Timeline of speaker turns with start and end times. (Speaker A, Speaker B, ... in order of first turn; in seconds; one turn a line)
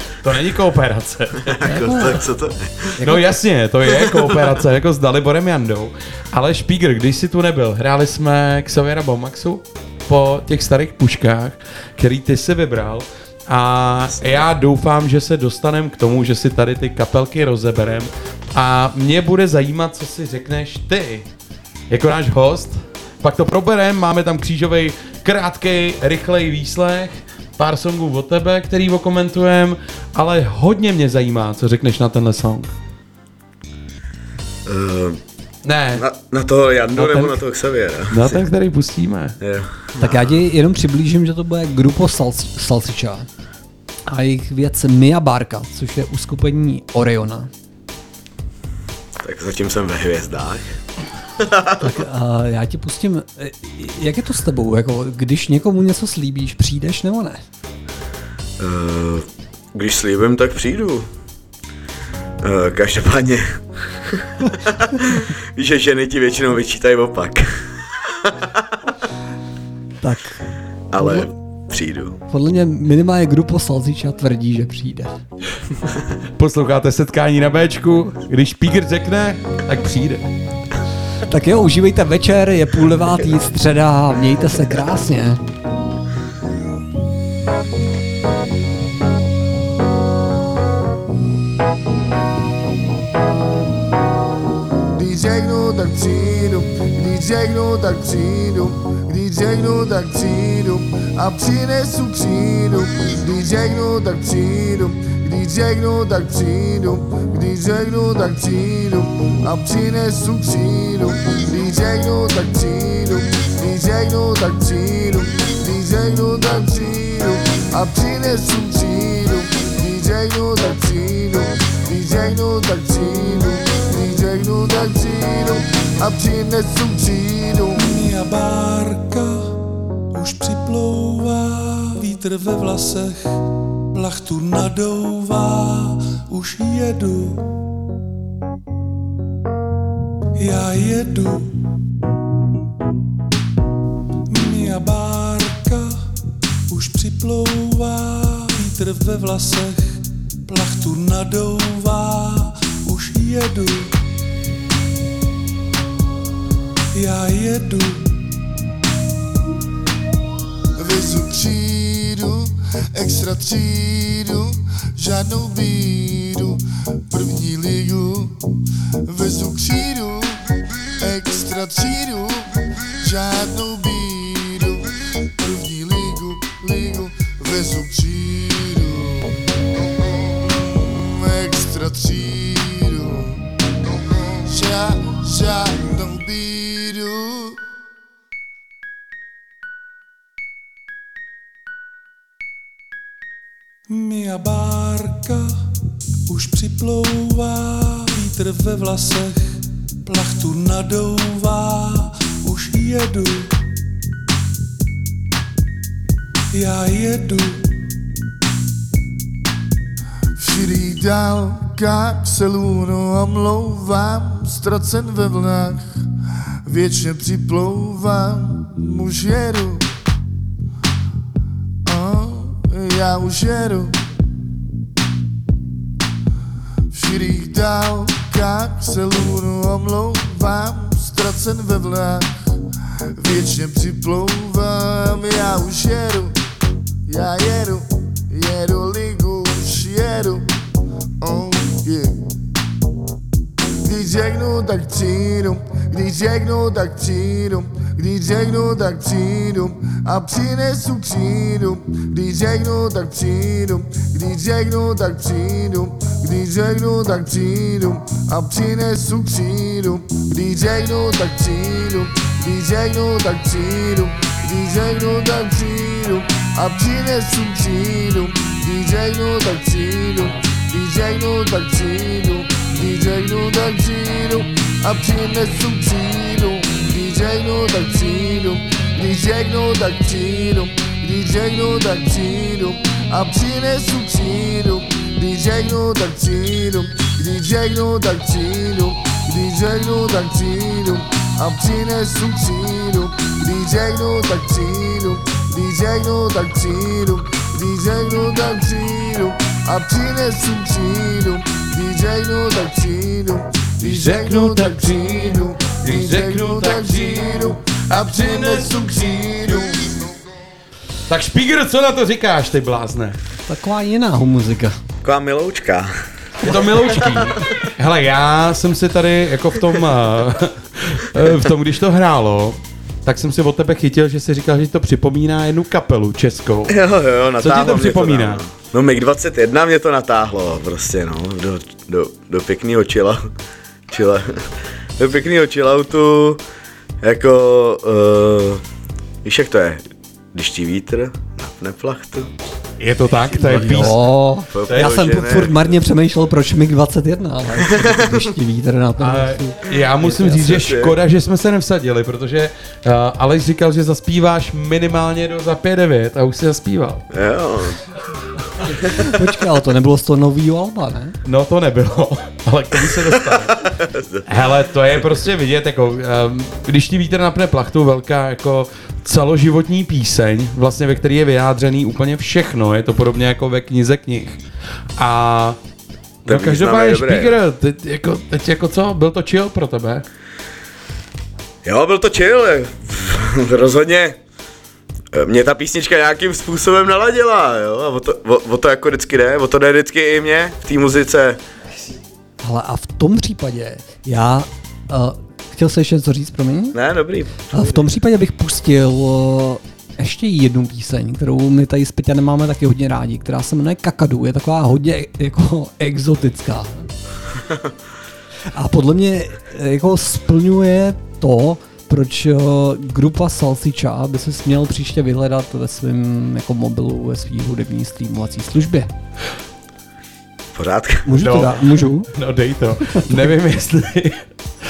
Speaker A: 0.2-1.6
Speaker B: 1.5-2.9
Speaker C: 1.7-2.2
Speaker C: 3.0-3.2
Speaker A: 3.0-21.3
Speaker B: 3.9-4.5
Speaker A: 21.9-32.7
Speaker B: 34.6-35.2
Speaker A: 35.6-36.0
Speaker B: 35.9-38.4
Speaker A: 37.0-37.3
Speaker A: 38.1-39.4
Speaker B: 39.4-40.4
Speaker C: 40.0-43.3
Speaker C: 44.1-47.5
Speaker B: 49.2-50.6
Speaker B: 51.4-51.8
Speaker C: 51.8-57.4
Speaker B: 58.6-61.1
Speaker B: 62.4-63.5
Speaker B: 64.1-67.5
Speaker C: 70.0-70.4
Speaker B: 70.9-72.2
Speaker C: 71.0-71.3
Speaker C: 72.3-75.1
Speaker A: 76.4-80.2
Speaker C: 81.3-85.4
Speaker D: 94.9-127.8
Speaker E: 127.8-129.5
Speaker E: 130.1-133.4
Speaker E: 133.9-137.4
Speaker E: 140.4-141.5
Speaker E: 144.3-145.9
Speaker E: 146.7-153.9
Speaker E: 156.9-158.1
Speaker D: 160.8-168.3
Speaker D: 169.1-170.4
Speaker D: 171.0-172.5
Speaker D: 173.0-179.3
Speaker D: 180.3-183.4
Speaker D: 184.5-187.6
Speaker E: 193.9-195.5
Speaker E: 196.3-199.4
Speaker E: 200.0-203.5
Speaker E: 206.5-207.6
Speaker D: 210.4-215.9
Speaker D: 216.7-219.8
Speaker D: 221.9-223.9
Speaker D: 226.9-232.3
Speaker D: 233.2-236.3
Speaker D: 237.1-240.4
Speaker D: 241.2-242.2
Speaker D: 243.8-310.0
Speaker A: 303.8-308.7
Speaker A: 311.1-313.2
Speaker C: 313.5-314.8
Speaker B: 315.0-315.9
Speaker A: 316.4-326.7
Speaker B: 316.7-317.2
Speaker B: 326.7-333.3
Speaker A: 327.4-328.4
Speaker B: 333.9-334.4
Speaker B: 335.0-336.4
Speaker B: 337.0-338.6
Speaker B: 339.2-342.3
Speaker A: 342.8-344.0
Speaker C: 343.3-350.5
Speaker B: 344.5-345.7
Speaker B: 347.6-348.2
Speaker A: 349.0-357.0
Speaker B: 350.3-351.0
Speaker B: 357.1-357.8
Speaker C: 358.9-361.1
Speaker A: 361.2-363.6
Speaker B: 363.4-364.2
Speaker A: 364.2-374.4
Speaker A: 375.0-375.6
Speaker B: 376.2-377.4
Speaker A: 376.2-380.0
Speaker B: 381.6-384.1
Speaker B: 385.1-391.4
Speaker C: 392.4-396.8
Speaker B: 396.7-397.9
Speaker C: 397.5-406.9
Speaker C: 408.5-418.9
Speaker B: 420.5-421.1
Speaker C: 421.1-422.1
Speaker A: 421.2-424.2
Speaker C: 422.9-423.3